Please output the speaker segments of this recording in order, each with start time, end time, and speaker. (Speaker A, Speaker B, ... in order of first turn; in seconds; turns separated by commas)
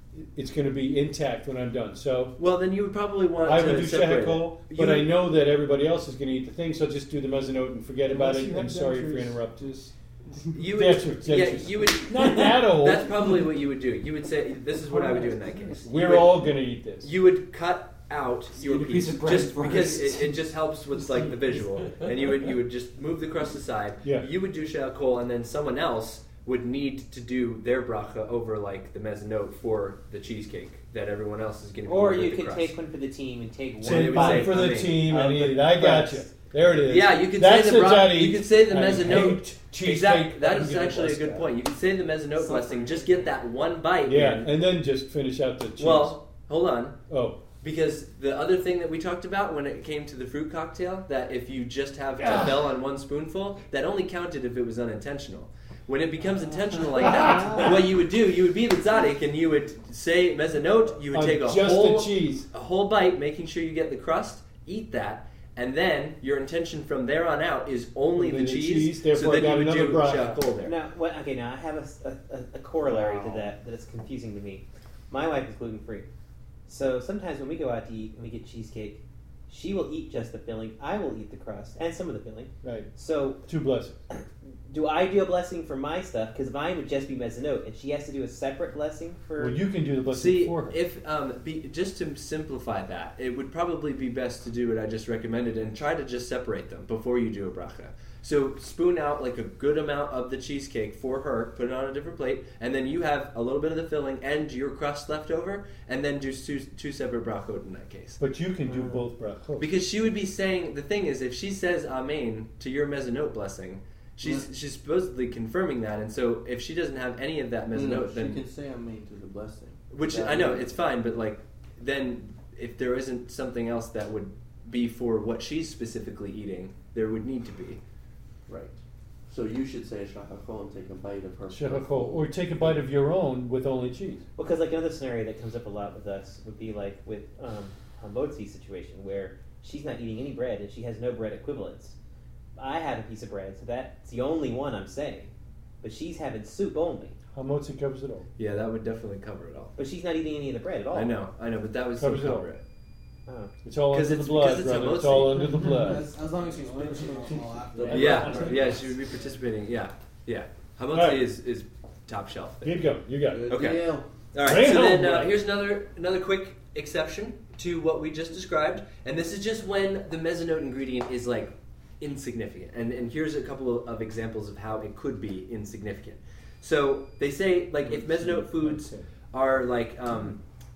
Speaker A: 0.1-2.4, Speaker B: 2.4-5.2, Speaker A: 3.4-9.7, Speaker C: 8.1-10.5, Speaker B: 10.5-32.7, Speaker A: 10.7-13.1, Speaker C: 14.9-15.8, Speaker A: 15.8-17.1, Speaker C: 18.5-20.5, Speaker C: 21.2-21.6, Speaker A: 24.0-24.3, Speaker D: 31.8-36.3, Speaker A: 33.8-41.5, Speaker B: 33.8-35.3, Speaker B: 36.9-44.5, Speaker A: 44.0-46.2, Speaker B: 45.8-47.0, Speaker A: 47.1-47.4, Speaker B: 47.6-70.7, Speaker A: 57.0-57.6, Speaker A: 61.1-62.5, Speaker A: 68.2-70.4, Speaker D: 70.6-76.0, Speaker D: 76.7-83.4, Speaker A: 82.6-82.9, Speaker A: 83.4-84.0, Speaker D: 84.1-89.6, Speaker A: 89.4-90.8, Speaker B: 90.1-108.2, Speaker A: 108.2-109.7, Speaker B: 109.6-118.4, Speaker E: 117.7-120.7, Speaker B: 119.9-127.8, Speaker E: 129.3-132.8, Speaker A: 131.5-134.2, Speaker D: 134.4-141.9, Speaker D: 142.6-145.3, Speaker D: 145.8-147.2, Speaker A: 147.3-148.3, Speaker B: 148.4-149.8, Speaker D: 149.8-151.2, Speaker B: 150.9-152.6, Speaker A: 152.0-152.5, Speaker D: 153.3-153.5, Speaker A: 153.6-156.1, Speaker B: 153.9-155.6, Speaker F: 155.6-158.7, Speaker C: 156.5-157.9, Speaker A: 157.8-158.8, Speaker B: 157.9-162.9, Speaker A: 160.9-161.2, Speaker A: 162.6-163.6, Speaker E: 163.3-164.1, Speaker B: 163.5-180.4, Speaker A: 164.4-165.3, Speaker A: 177.8-179.0